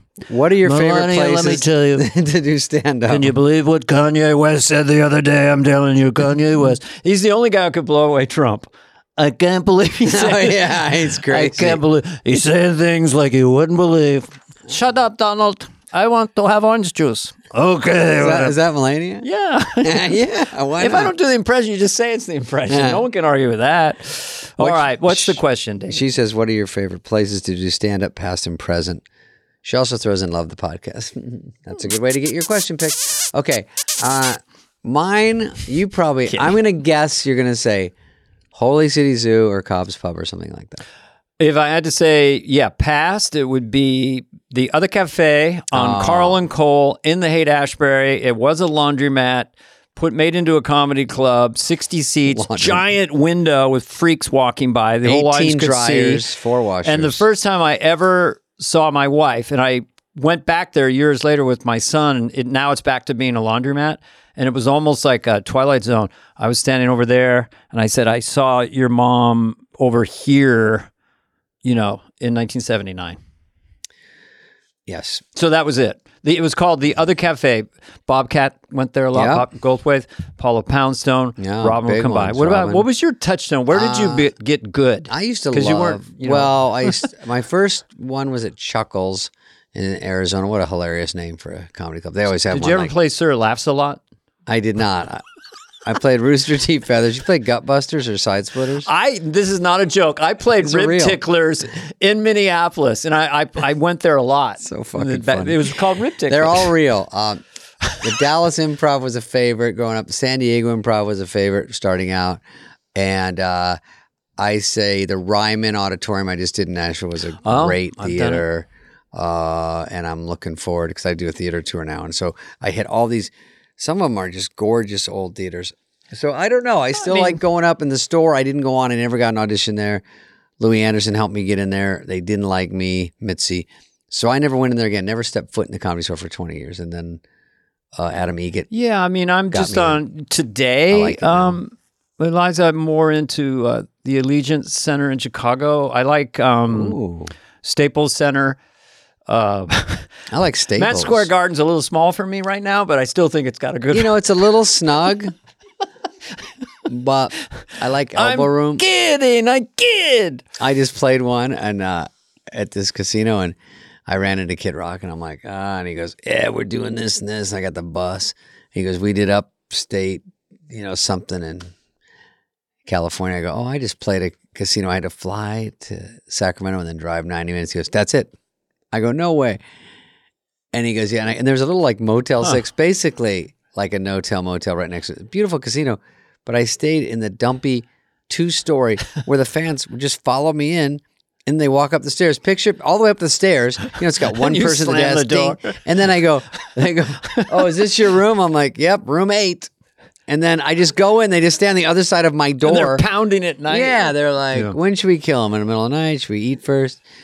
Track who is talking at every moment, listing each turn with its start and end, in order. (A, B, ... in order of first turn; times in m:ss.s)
0:00.3-0:03.3 A
0:00.6-0:02.1 B
0:03.1-0:18.6 B
0:10.1-0:11.8 A
0:18.2-0:19.3 A
0:19.2-0:20.2 B
0:19.8-0:21.1 A
0:20.8-0:26.1 B
0:22.7-0:23.0 A
0:24.6-0:29.0 A
0:29.6-0:37.9 A
0:36.3-0:36.6 B
0:38.5-0:40.8 A
0:41.4-0:56.3 B
0:45.7-0:46.4 A
0:52.3-0:52.9 A
0:55.0-0:57.2 A
0:56.8-1:10.9 B
1:11.6-1:13.2 B
1:14.9-1:15.2 A
1:15.4-1:27.0 B
1:19.1-1:19.5 A
1:21.4-1:22.9 A
1:23.7-1:24.3 A
1:25.1-1:32.9 A
1:32.4-1:34.0 B
1:34.5-1:35.2 A
1:35.8-1:38.9 A
1:38.8-1:46.7 B
1:40.6-1:41.2 A
1:44.6-1:45.7 A
1:46.3-1:47.4 A
1:48.0-1:52.4 A
1:53.0-1:53.8 A
1:54.4-2:10.0 A
1:57.4-1:58.4 B
2:07.0-2:07.4 B
2:10.6-2:17.2 A
2:18.0-2:18.7 A
2:18.7-2:27.0 B
2:19.5-2:20.0 A
2:20.9-2:21.6 A
2:26.7-2:27.3 A
2:27.6-2:28.6 B
2:29.3-2:30.1 B
2:30.3-2:31.3 A
2:30.8-2:34.2 B
2:33.9-2:35.3 A
2:36.9-2:38.9 A
2:38.2-2:40.4 B
2:40.6-2:43.6 A
2:44.1-2:51.7 A
2:52.9-2:58.3 A
2:58.9-2:59.6 A
3:00.7-3:19.7 A
3:14.2-3:15.8 B
3:17.3-3:17.8 B
3:20.3-3:23.1 A
3:22.6-3:24.8 B
3:23.7-3:27.0 A